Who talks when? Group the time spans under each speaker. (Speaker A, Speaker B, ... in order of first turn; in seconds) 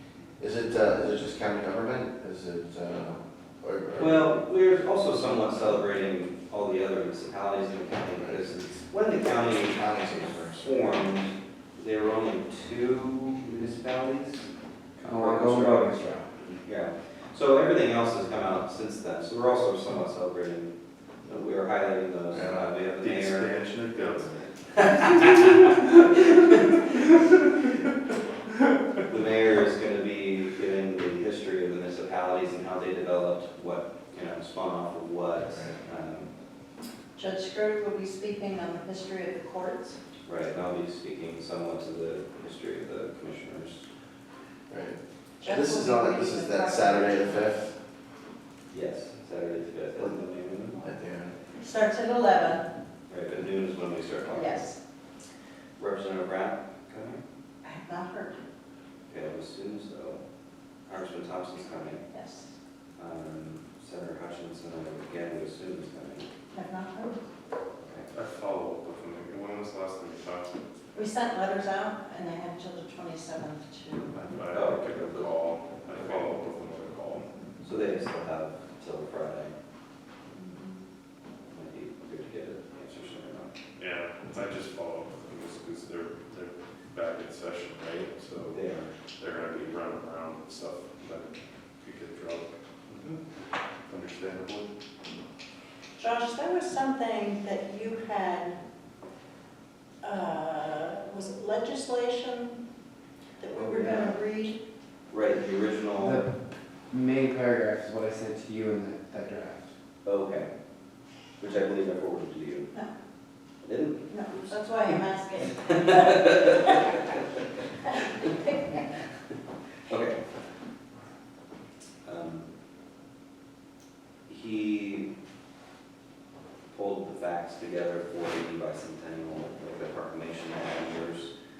Speaker A: 0.4-4.3, 8.2-10.7, 22.3-22.7, 44.7-47.7, 50.8-51.4
Speaker B: 4.0-14.5, 15.2-23.6, 24.3-26.9, 29.1-36.3, 40.3-43.9, 48.7-50.9, 53.1-54.7, 55.8-57.2, 59.1-60.2, 60.9-62.0, 63.0-66.3, 67.8-68.1, 74.5-75.3, 75.9-76.3, 77.6-79.5, 81.5-83.5, 88.5-88.9, 103.5-104.2, 105.1-106.2, 110.0-110.5, 111.4-112.7, 113.6-114.1, 115.6-117.2, 119.9-120.2, 122.0-122.5, 124.3-125.1, 126.7-131.3
Speaker C: 15.0-16.3, 106.0-106.3, 106.9-109.7
Speaker D: 23.0-24.3, 68.1-70.5, 74.1-77.3, 83.8-88.6, 89.2-93.2, 93.9-94.7
Speaker E: 37.2-40.0, 45.4-47.5, 51.6-52.6, 54.3-54.8, 57.6-58.5, 62.1-62.5, 66.5-67.2, 70.9-74.1, 80.3-80.8, 96.0-98.6, 100.0-102.6, 103.4-104.6, 114.1-116.5, 117.8-118.9